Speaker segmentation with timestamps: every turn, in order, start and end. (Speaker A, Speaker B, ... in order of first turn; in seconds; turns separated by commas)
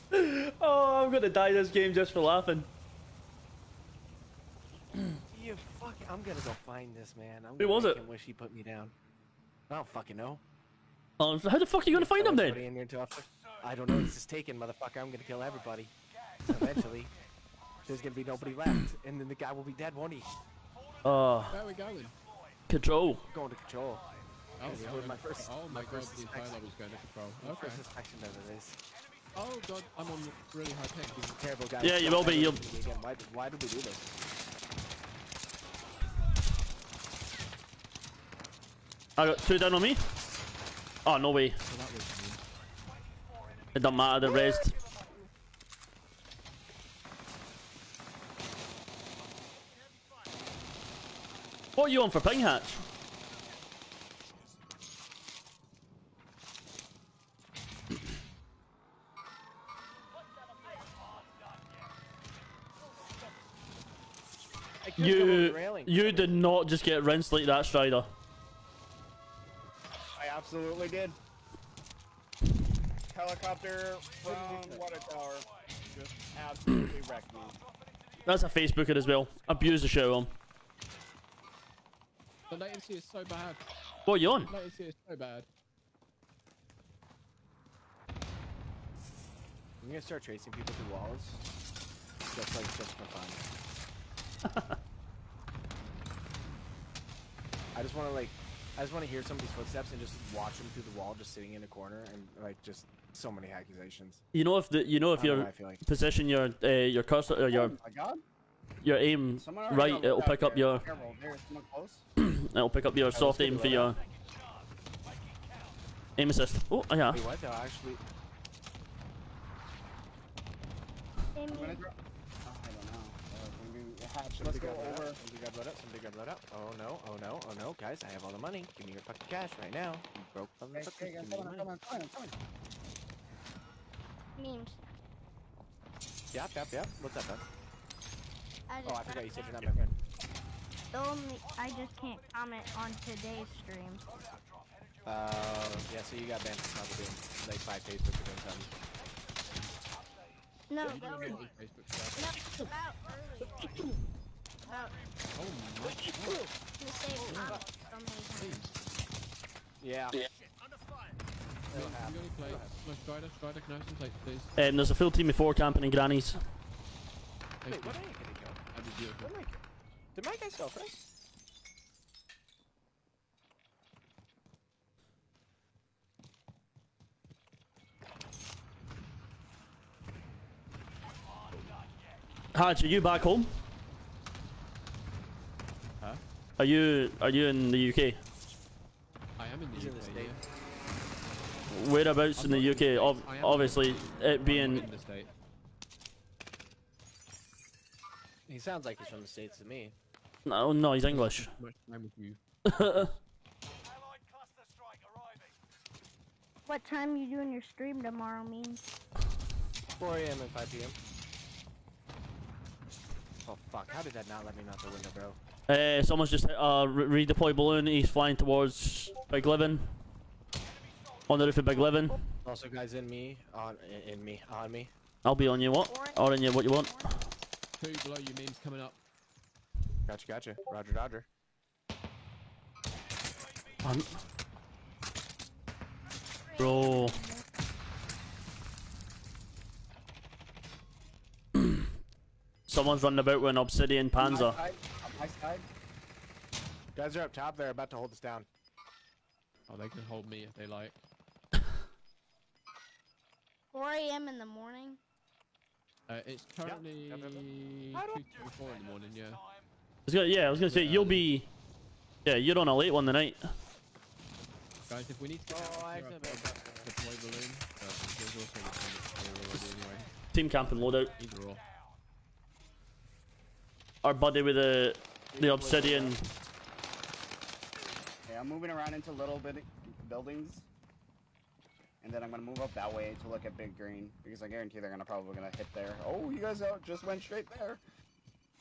Speaker A: 0.1-2.7, Speaker B: 5.3-8.9, Speaker A: 7.6-8.0, Speaker B: 9.7-10.4, Speaker A: 11.2-12.6, Speaker B: 11.9-15.9, Speaker B: 16.4-17.1, Speaker B: 17.9-20.3, Speaker A: 21.0-21.6, Speaker C: 21.5-22.2, Speaker A: 22.7-23.2, Speaker B: 23.3-24.1, Speaker C: 24.6-27.8, Speaker B: 24.6-26.7, Speaker B: 27.4-28.8, Speaker C: 29.4-31.4, Speaker B: 31.3-34.1, Speaker A: 31.8-32.6, Speaker A: 39.2-40.0, Speaker A: 41.0-41.6, Speaker C: 41.7-42.4, Speaker A: 43.8-44.8, Speaker A: 51.8-52.8, Speaker B: 64.8-66.4, Speaker A: 65.0-68.1, Speaker D: 70.2-71.2, Speaker D: 73.1-77.6, Speaker B: 74.2-74.8, Speaker A: 78.3-80.3, Speaker C: 82.5-83.6, Speaker A: 84.1-84.5, Speaker C: 84.5-85.5, Speaker B: 89.8-91.4, Speaker B: 92.3-93.5, Speaker A: 94.5-94.8, Speaker B: 97.7-104.2, Speaker A: 104.3-107.8, Speaker B: 105.2-105.8, Speaker D: 107.5-108.2, Speaker A: 108.8-110.8, Speaker D: 109.4-112.1, Speaker A: 112.2-114.0, Speaker B: 113.1-114.0, Speaker A: 116.2-117.2, Speaker B: 117.1-118.0, Speaker E: 121.3-121.8, Speaker D: 121.5-121.9, Speaker D: 122.4-125.2, Speaker B: 124.4-131.7, Speaker D: 130.7-132.3, Speaker E: 134.4-134.8, Speaker B: 136.3-137.4, Speaker E: 138.7-139.8, Speaker B: 138.8-140.0, Speaker E: 140.9-144.1, Speaker B: 145.1-148.7, Speaker E: 150.7-151.6, Speaker C: 150.8-152.5, Speaker E: 152.1-153.9, Speaker E: 154.6-155.0, Speaker C: 155.3-156.4, Speaker B: 156.2-156.5, Speaker E: 156.8-158.7, Speaker C: 157.2-157.7, Speaker B: 157.2-157.6, Speaker C: 158.4-158.7, Speaker B: 159.8-160.2, Speaker B: 161.7-162.8, Speaker C: 161.7-164.7, Speaker A: 164.6-166.4, Speaker C: 167.6-168.1, Speaker B: 167.7-168.6, Speaker C: 168.7-169.3, Speaker B: 169.2-169.6, Speaker B: 170.2-171.0, Speaker A: 182.5-183.5, Speaker A: 186.6-188.2, Speaker C: 189.4-190.4, Speaker B: 189.7-190.4, Speaker A: 191.7-194.9, Speaker C: 192.4-195.3, Speaker B: 198.5-199.9, Speaker A: 200.4-201.5, Speaker C: 201.1-203.2, Speaker A: 202.7-203.1, Speaker E: 206.7-208.9, Speaker B: 210.0-211.0, Speaker B: 213.4-215.4, Speaker A: 215.7-219.9, Speaker A: 221.3-222.2, Speaker B: 222.4-224.9, Speaker A: 225.2-227.0, Speaker E: 225.9-227.1, Speaker C: 227.8-229.0, Speaker B: 230.1-231.3, Speaker A: 233.8-234.2, Speaker E: 236.6-237.3, Speaker A: 236.6-237.2, Speaker A: 241.6-241.9, Speaker A: 242.7-244.6, Speaker D: 244.2-245.7, Speaker B: 246.9-248.5, Speaker C: 249.7-251.0, Speaker E: 253.7-255.0, Speaker C: 256.1-259.4, Speaker B: 256.6-258.2, Speaker A: 260.1-261.5, Speaker C: 260.6-261.2, Speaker A: 262.2-263.5, Speaker C: 264.9-270.1, Speaker B: 265.5-266.9, Speaker A: 270.3-271.1, Speaker C: 271.1-271.6, Speaker A: 274.0-276.3, Speaker B: 275.3-276.2, Speaker D: 278.3-280.7, Speaker D: 282.0-287.8